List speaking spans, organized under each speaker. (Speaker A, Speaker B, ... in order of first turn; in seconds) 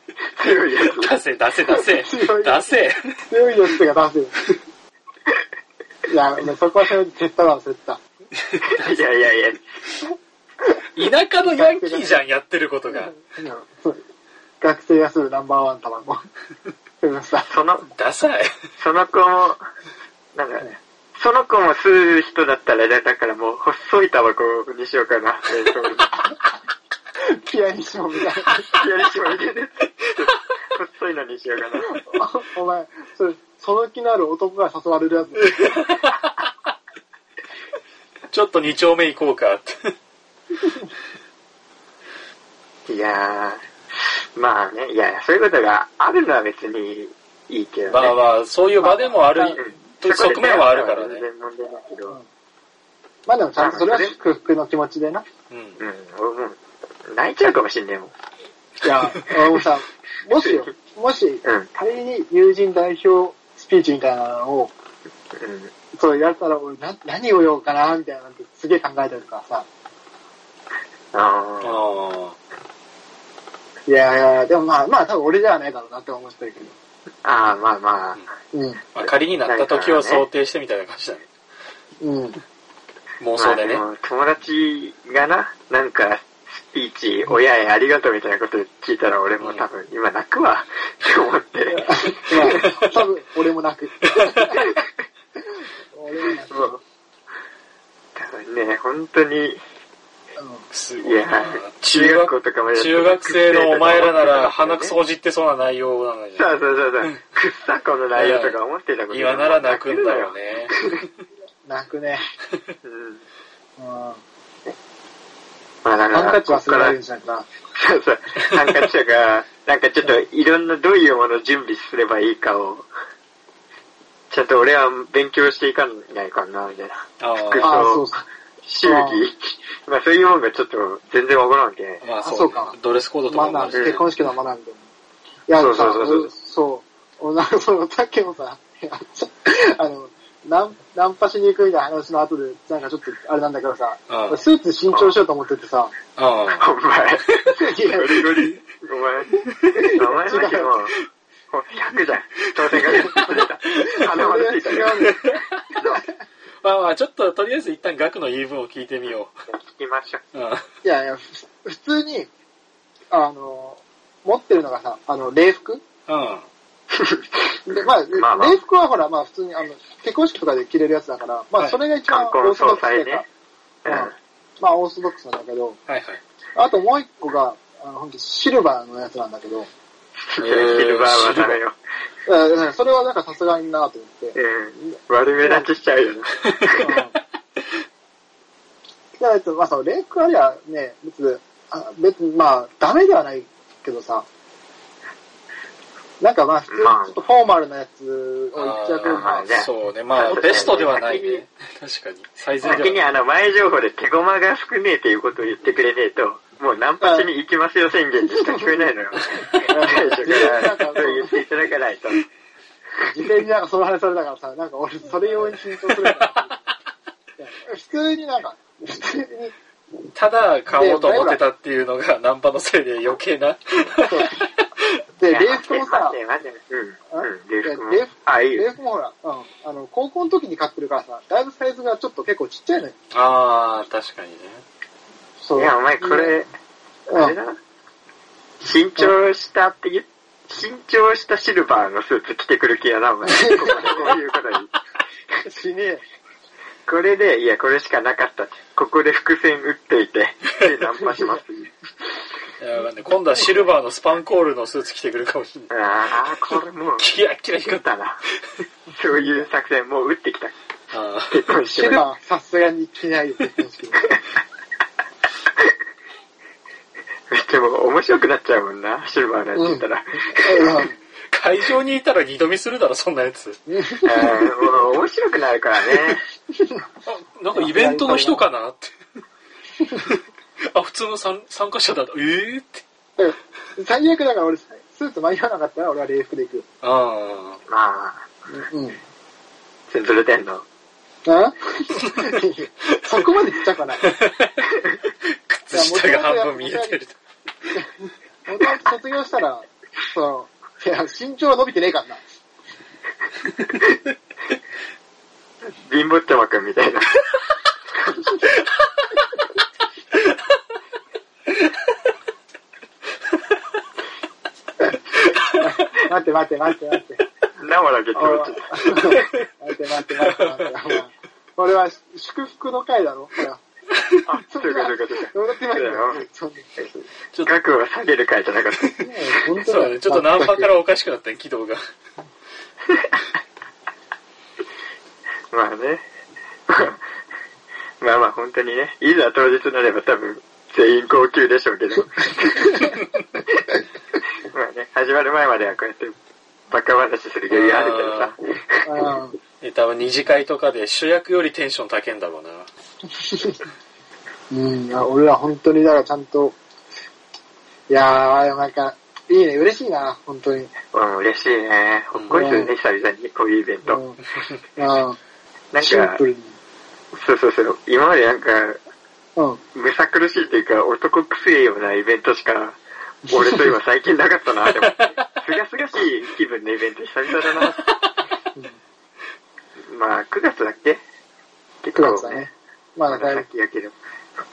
Speaker A: 0.4-1.1, 8.6-9.6, 17.5-17.9, 18.8-19.6, 20.4-26.2, 28.7-31.9, 42.9-48.2, 49.5-52.2, 53.6-54.2, 55.8-58.1, 60.4-60.7, 61.4-61.7, 65.3-65.7, 71.1-71.8, 77.2-78.2, 79.0-80.3, 83.4-92.7, 96.5-96.8, 98.2-99.6, 101.0-105.0, 106.4-111.0, 112.8-113.2, 115.8-117.0, 117.8-122.9, 124.3-128.1, 128.7-132.0, 135.5-136.3, 144.9-145.2, 146.5-151.0, 151.5-155.2, 155.8-156.0, 159.1-160.2, 166.9-168.6, 172.1-173.3, 173.8-174.2, 180.3-181.8, 184.3-187.0, 196.7-197.2, 199.0-201.4, 202.6-212.2, 225.3-228.7, 235.6-236.5, 237.1-237.6, 238.6-244.7, 246.9-251.7, 255.7-257.1, 257.6-258.2, 258.9-260.6, 261.3-262.1, 267.3-270.9, 274.0-276.2, 287.7-288.3, 289.9-290.6, 305.8-307.1, 317.6-319.1, 324.3-326.2, 326.8-329.0, 335.5-336.0, 336.7-337.0, 338.0-343.0, 344.4-346.1, 346.7-349.1, 360.9-364.0, 365.7-366.2, 367.1-368.8, 369.8-377.9, 379.9-381.0, 381.8-382.4, 383.1-383.9
Speaker B: 1.0-3.2, 8.5-8.8, 10.9-13.1, 17.9-18.5, 35.6-36.5, 38.3-39.9, 47.9-51.2, 55.5-55.8, 71.6-72.4, 78.9-81.3, 83.2-83.8, 94.2-94.6, 100.7-107.2, 108.2-111.1, 127.2-127.8, 132.0-134.1, 144.1-144.4, 146.2-146.7, 152.9-154.0, 154.9-155.8, 156.6-159.3, 160.3-160.6, 166.1-166.4, 175.9-176.2, 180.4-181.6, 186.5-187.0, 198.6-203.0, 209.4-209.7, 220.1-224.6, 233.1-234.6, 252.6-255.7, 257.0-257.9, 260.9-261.4, 271.3-273.6, 277.1-278.9, 280.0-282.8, 286.8-287.6, 294.0-294.7, 295.5-297.1, 315.3-315.6, 319.1-319.5, 320.2-320.5, 329.5-331.8, 347.5-348.3, 349.6-352.7, 362.1-362.4, 374.7-375.4, 377.8-378.1
Speaker C: 1.7-2.7, 3.3-4.4, 6.1-8.0, 11.4-12.2, 13.1-14.0, 14.6-16.2, 17.0-17.5, 27.2-28.6, 32.0-35.6, 48.8-49.6, 53.3-55.2, 58.8-64.7, 65.9-69.7, 73.9-76.8, 78.5-78.8, 82.0-82.4, 91.7-94.6, 95.9-96.8, 100.4-100.7, 111.6-112.3, 113.8-114.2, 116.1-117.5, 127.6-128.2, 128.8-129.2, 132.2-132.8, 133.3-134.8, 135.5-145.9, 147.6-148.4, 149.7-150.9, 154.1-155.2, 160.8-162.3, 163.1-165.8, 167.7-173.3, 173.9-175.8, 176.6-179.7, 182.3-184.4, 185.4-185.7, 186.8-187.2, 189.2-194.3, 196.2-199.6, 200.4-200.7, 207.0-207.3, 208.2-211.4, 213.1-216.5, 217.4-219.6, 220.8-221.4, 224.1-224.4, 225.2-226.2, 227.1-232.9, 235.4-236.3, 237.1-237.4, 243.3-243.7, 245.4-246.0, 259.1-259.5, 261.7-264.2, 269.6-271.0, 273.7-274.5, 276.6-276.9, 277.5-278.4, 283.2-286.7, 288.5-289.0, 291.2-294.0, 295.7-297.0, 297.7-302.4, 315.6-317.2, 318.2-323.6, 324.5-326.7, 329.0-330.7, 342.6-342.9, 348.9-349.4, 353.2-353.6, 354.5-356.6, 357.9-360.7, 362.3-362.7, 363.9-364.2, 364.8-365.2, 365.8-366.6, 369.4-369.6, 373.3-373.7, 382.0-383.5